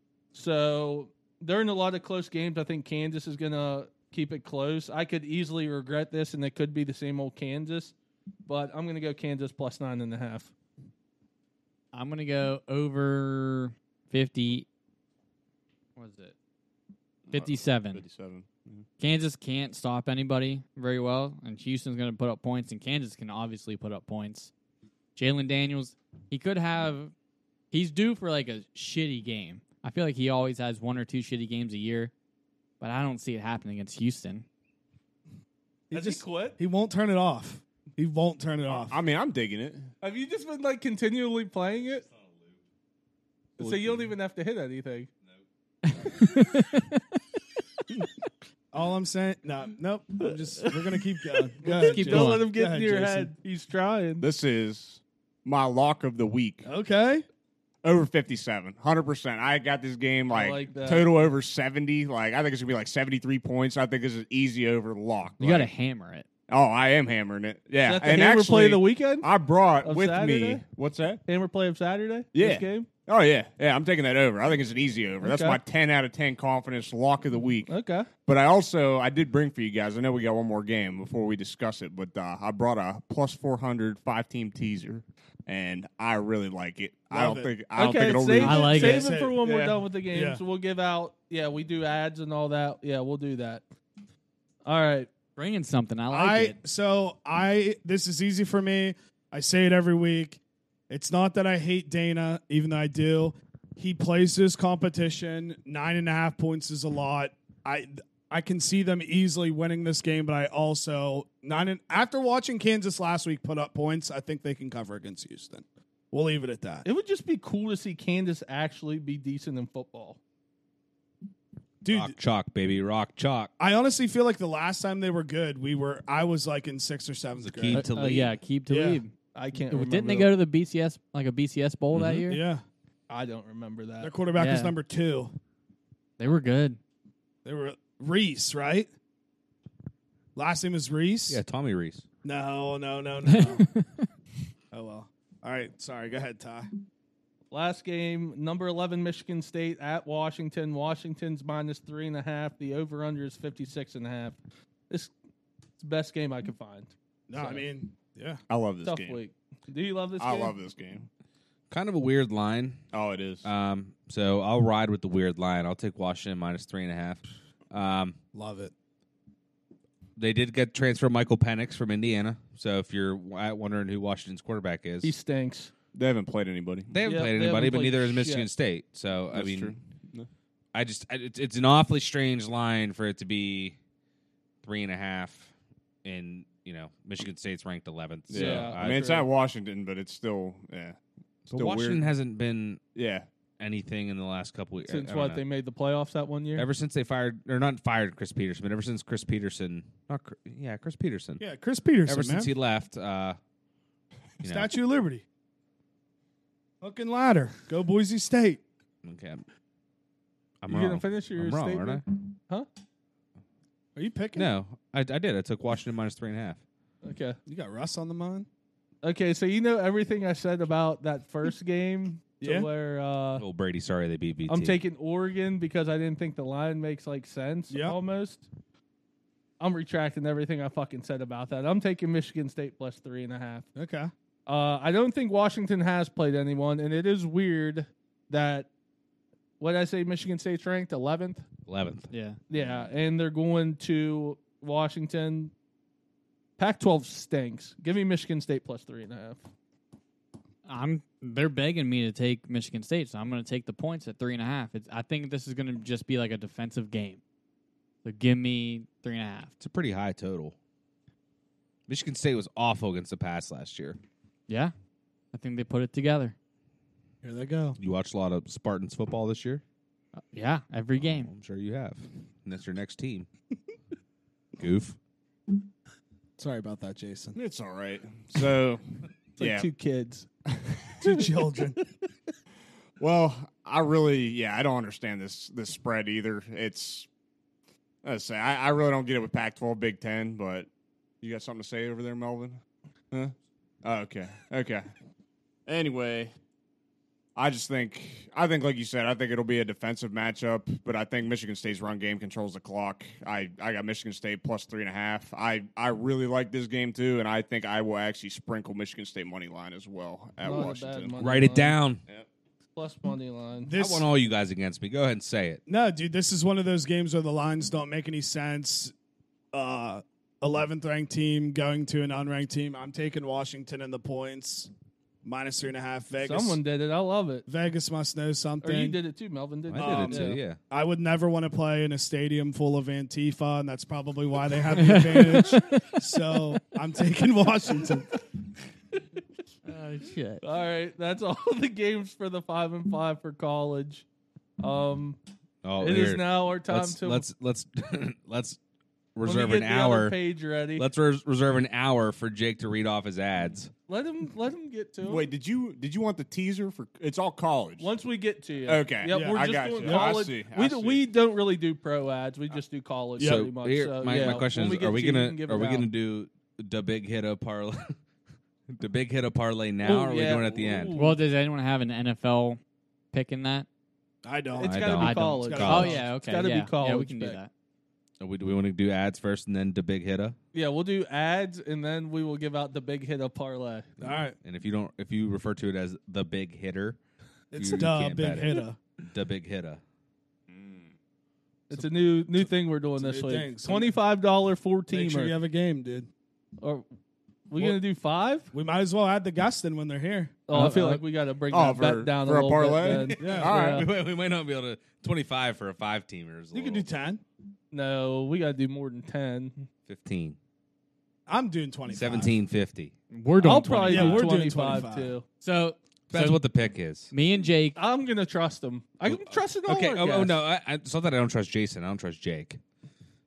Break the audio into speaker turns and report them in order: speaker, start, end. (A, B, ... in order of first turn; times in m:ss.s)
0:00.3-0:07.9 A
0:08.4-0:10.5 A
0:11.9-0:14.6 B
0:16.0-0:16.3 B
0:17.3-0:18.8 C
0:17.3-0:18.0 B
0:19.0-0:24.5 B
0:25.2-0:27.1 B
0:27.7-0:32.1 B
0:32.8-0:34.4 B
0:35.9-0:39.0 D
0:35.9-0:36.6 A
0:38.7-0:39.9 C
0:40.0-0:42.1 A
0:43.6-0:45.1 A
0:45.8-0:47.0 B
0:48.7-0:53.3 D
0:51.6-0:54.2 A
0:51.7-0:52.5 B
0:54.2-0:56.7 C
0:56.6-0:57.2 D
0:57.8-1:05.7 C
1:00.3-1:01.1 A
1:05.4-1:06.2 B
1:06.5-1:11.2 C
1:07.8-1:09.3 A
1:09.8-1:10.6 A
1:11.3-1:12.9 A
1:12.3-1:17.7 C
1:15.2-1:15.6 A
1:17.7-1:18.1 A
1:18.2-1:28.8 C
1:27.1-1:27.5 D
1:27.7-1:33.6 A
1:28.4-1:29.1 B
1:28.7-1:30.4 D
1:34.6-1:35.1 A
1:35.4-1:36.6 B
1:36.1-1:56.8 D
1:56.8-2:00.2 A
2:01.8-2:02.2 D
2:01.9-2:03.5 E
2:03.6-2:07.9 D
2:07.4-2:08.3 E
2:07.7-2:09.1 B
2:08.7-2:09.0 D
2:09.3-2:10.3 A
2:09.7-2:12.4 B
2:11.9-2:12.2 E
2:12.2-2:12.6 D
2:13.1-2:14.1 A
2:14.0-2:15.3 D
2:14.4-2:14.7 B
2:16.2-2:16.8 B
2:17.4-2:18.9 D
2:20.3-2:21.4 D
2:21.3-2:22.0 E
2:22.2-2:23.7 D
2:23.2-2:24.1 B
2:24.7-2:26.7 D
2:27.5-2:34.4 A
2:35.8-2:37.6 A
2:37.3-2:38.4 D
2:38.5-2:39.2 C
2:38.8-2:40.5 A
2:40.2-2:41.1 C
2:41.7-2:42.8 E
2:42.9-2:43.4 C
2:43.4-2:48.2 E
2:48.3-2:48.7 D
2:50.2-2:55.1 E
2:55.0-2:55.7 A
2:55.9-2:57.0 C
2:56.9-2:59.7 E
2:57.0-2:58.5 A
2:59.3-3:00.3 C
3:00.7-3:03.8 E
3:04.6-3:05.5 E
3:06.0-3:09.2 E
3:08.3-3:12.1 C
3:08.3-3:09.2 A
3:11.5-3:12.8 E
3:12.9-3:13.3 C
3:13.6-3:15.4 E
3:14.8-3:16.7 A
3:16.6-3:21.4 E
3:21.4-3:22.5 D
3:22.0-3:23.4 E
3:24.4-3:24.7 E
3:24.4-3:25.2 D
3:26.8-3:28.6 D
3:29.0-3:29.4 E
3:30.6-3:32.0 E
3:30.7-3:32.6 A
3:34.0-3:34.5 D
3:34.3-3:36.6 E
3:37.0-3:37.4 A
3:37.4-3:38.5 D
3:39.0-3:43.4 A
3:42.4-3:42.7 D
3:43.4-3:44.8 E
3:44.5-3:48.5 A
3:47.7-3:48.0 D
3:49.6-3:53.7 A
3:53.7-3:54.1 D
3:54.4-3:58.7 A
3:59.6-4:01.4 A
4:01.7-4:02.1 E
4:02.1-4:02.4 B
4:02.5-4:05.5 A
4:06.6-4:09.4 A
4:10.6-4:17.2 B
4:18.0-4:19.5 B
4:19.6-4:20.5 E
4:21.9-4:24.0 E
4:24.5-4:24.7 B
4:25.3-4:26.3 B
4:27.2-4:27.8 D
4:27.8-4:29.6 E
4:30.3-4:31.3 B
4:31.0-4:33.3 E
4:34.6-4:35.0 E
4:36.4-4:37.4 D
4:37.4-4:38.8 C
4:39.4-4:39.7 C
4:39.4-4:40.3 A
4:40.5-4:40.9 C
4:41.0-4:41.8 D
4:43.0-4:47.1 C
4:48.0-4:50.7 C
4:51.2-4:52.6 C
4:53.1-4:54.8 C
4:55.6-4:56.3 C
4:57.4-5:11.2 C
5:10.4-5:11.8 A
5:11.2-5:12.0 E
5:12.7-5:13.7 A
5:13.6-5:14.1 D
5:13.8-5:15.6 E
5:15.7-5:18.9 D
5:19.5-5:24.7 D
5:25.2-5:26.6 D
5:26.2-5:27.4 A
5:27.5-5:29.0 D
5:28.6-5:30.4 A
5:29.7-5:30.6 E
5:29.8-5:38.2 D
5:34.7-5:36.2 B
5:39.6-5:40.4 B
5:40.4-5:44.0 A
5:44.6-5:45.2 A
5:45.6-5:48.6 E
5:45.8-5:47.2 A
5:49.1-5:50.2 E
5:49.2-5:50.9 A
5:50.8-5:53.7 E
5:53.9-5:55.3 A
5:55.0-5:57.9 C
5:57.8-6:05.8 A
5:58.7-6:01.0 C
5:59.1-6:00.2 D
6:03.2-6:07.9 E
6:03.2-6:03.4 D
6:08.7-6:10.9 E
6:09.8-6:11.2 A
6:10.9-6:12.6 B
6:13.1-6:13.7 B
6:14.2-6:16.0 D
6:14.6-6:17.4 A
6:14.6-6:16.0 E
6:15.0-6:17.5 B
6:18.2-6:20.4 E
6:20.5-6:23.9 A
6:24.0-6:24.4 D
6:24.4-6:27.0 E
6:27.5-6:28.8 D
6:27.6-6:29.8 E
6:30.5-6:30.9 C
6:31.7-6:35.4 A
6:33.0-6:33.9 D
6:34.9-6:36.1 D
6:37.5-6:38.5 A
6:38.5-6:41.0 D
6:40.5-6:43.9 A
6:41.5-6:43.8 C
6:43.2-6:43.5 D
6:43.3-6:46.8 E
6:46.5-6:47.2 D
6:47.7-6:49.7 A
6:49.8-6:50.4 E
6:51.3-6:52.4 D
6:51.9-6:52.9 E
6:53.1-6:54.3 B
6:53.4-6:55.2 A
6:53.9-6:55.1 D
6:55.4-6:56.4 B
6:56.1-6:57.1 E
6:57.1-6:57.8 B
6:57.8-7:00.4 A
6:59.0-7:02.6 E